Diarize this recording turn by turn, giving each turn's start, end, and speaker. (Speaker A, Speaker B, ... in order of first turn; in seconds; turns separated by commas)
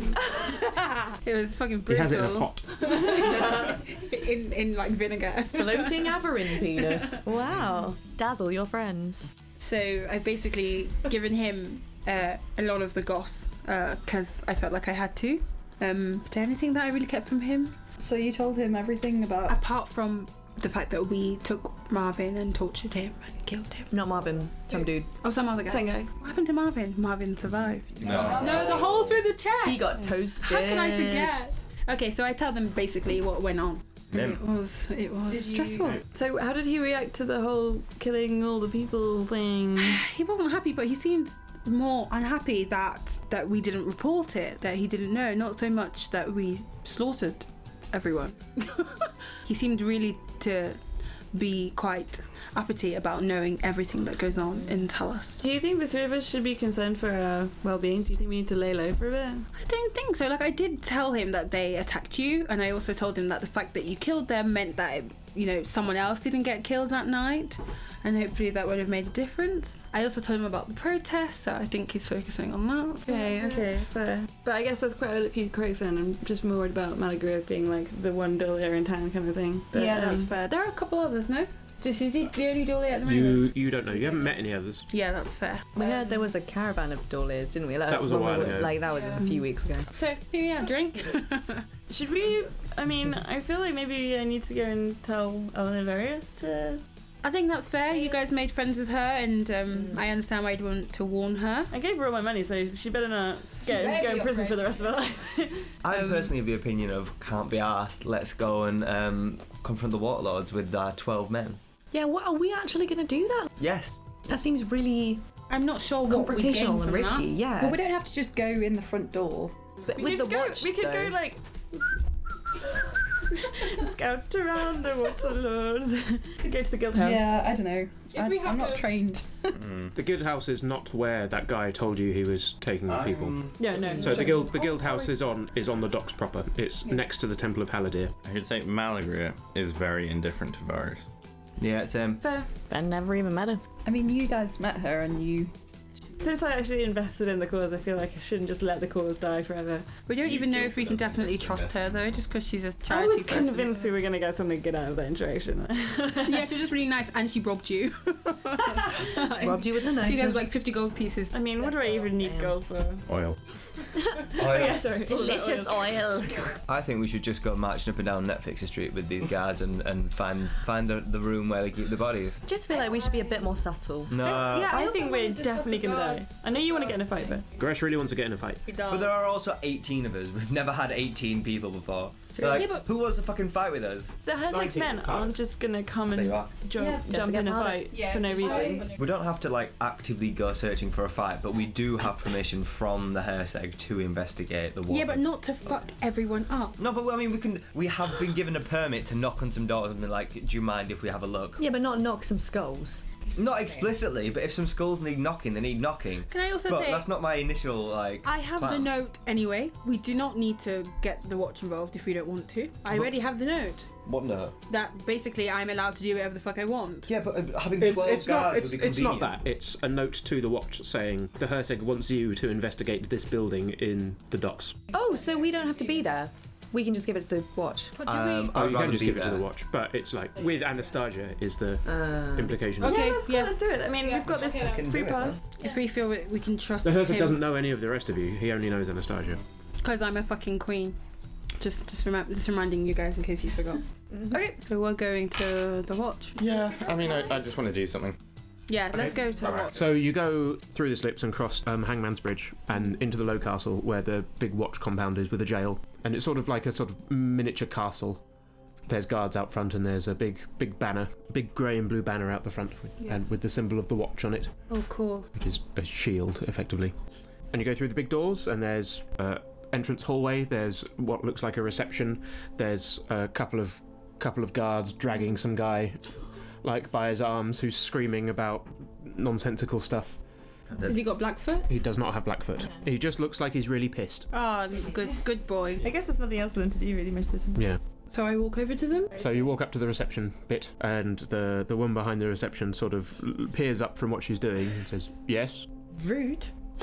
Speaker A: 0.4-7.2, Speaker B: 1.9-2.9, Speaker C: 3.2-3.7, Speaker C: 5.5-9.3, Speaker A: 9.6-17.8, Speaker D: 18.0-19.6, Speaker A: 19.5-23.9, Speaker C: 23.9-25.1, Speaker A: 24.7-36.0, Speaker E: 25.6-26.1, Speaker F: 28.0-29.1, Speaker G: 28.0-28.9, Speaker C: 29.6-31.5, Speaker G: 34.1-34.4, Speaker E: 35.4-40.0, Speaker A: 39.8-50.8, Speaker A: 51.3-55.4, Speaker E: 55.4-59.5, Speaker A: 59.5-73.6, Speaker E: 73.1-80.3, Speaker A: 79.7-84.3, Speaker B: 83.0-84.9, Speaker A: 84.9-85.7, Speaker C: 85.8-89.9, Speaker B: 87.9-88.8, Speaker A: 89.0-89.4, Speaker A: 89.9-91.7, Speaker E: 91.9-96.8, Speaker A: 97.2-101.7, Speaker C: 99.7-100.0, Speaker E: 101.7-105.8, Speaker A: 103.6-104.8, Speaker G: 105.8-111.6, Speaker A: 106.0-106.3, Speaker C: 111.9-113.5, Speaker G: 113.6-114.0, Speaker C: 114.3-115.2, Speaker A: 115.5-117.3, Speaker C: 116.0-117.8, Speaker D: 117.6-119.6, Speaker C: 119.9-121.2, Speaker E: 120.0-121.8, Speaker E: 123.3-127.4, Speaker D: 127.0-129.6, Speaker A: 128.1-128.9, Speaker F: 129.5-129.9, Speaker B: 129.9-133.4, Speaker F: 132.9-133.9, Speaker E: 133.6-134.5, Speaker B: 133.9-138.1, Speaker A: 134.1-135.1, Speaker F: 138.2-141.1, Speaker G: 141.6-142.2, Speaker E: 142.2-142.5, Speaker C: 142.7-143.6, Speaker D: 143.8-145.5, Speaker E: 146.2-149.9, Speaker A: 150.1-153.8, Speaker F: 150.2-152.1, Speaker E: 152.9-156.5, Speaker A: 156.2-161.4, Speaker C: 159.3-160.5, Speaker E: 161.3-163.0, Speaker C: 161.6-162.6, Speaker F: 163.1-163.4, Speaker E: 164.3-166.1, Speaker G: 164.4-164.8, Speaker C: 165.0-166.6, Speaker G: 166.6-172.4, Speaker C: 172.5-174.3, Speaker A: 172.7-173.3, Speaker G: 174.1-174.8, Speaker A: 174.2-177.2, Speaker E: 174.5-177.4, Speaker B: 177.6-178.6, Speaker A: 178.6-179.1, Speaker G: 178.9-184.2, Speaker A: 182.4-182.9, Speaker E: 184.3-188.8, Speaker B: 184.5-185.4, Speaker G: 186.1-186.5, Speaker A: 186.8-187.3, Speaker C: 187.0-188.9, Speaker A: 187.9-189.1, Speaker G: 188.9-195.2, Speaker A: 194.9-196.8, Speaker G: 196.8-201.6, Speaker C: 201.6-203.0, Speaker G: 203.4-208.9, Speaker A: 206.3-207.1, Speaker A: 208.2-213.9, Speaker G: 212.9-213.1, Speaker G: 214.1-214.5, Speaker A: 214.7-217.1, Speaker G: 217.1-219.3, Speaker B: 217.8-224.8, Speaker C: 224.9-228.0, Speaker A: 227.9-228.6, Speaker G: 228.0-229.5, Speaker B: 228.5-233.1, Speaker C: 231.9-232.7, Speaker A: 232.8-234.8, Speaker E: 232.8-235.5, Speaker G: 234.2-235.4, Speaker A: 235.6-237.4, Speaker B: 236.8-239.4, Speaker A: 239.8-241.0, Speaker A: 241.6-247.3, Speaker F: 246.4-248.2, Speaker A: 248.7-249.8, Speaker B: 248.9-258.2, Speaker F: 249.4-249.8, Speaker B: 258.9-264.6, Speaker A: 264.7-265.3, Speaker B: 265.4-266.9, Speaker B: 267.5-276.0, Speaker B: 276.6-280.2, Speaker G: 280.7-281.0, Speaker A: 280.9-281.7, Speaker B: 281.7-284.3, Speaker A: 284.3-285.9, Speaker E: 285.8-287.6, Speaker B: 287.6-287.8, Speaker A: 288.1-289.3, Speaker B: 289.2-295.7, Speaker C: 296.0-296.5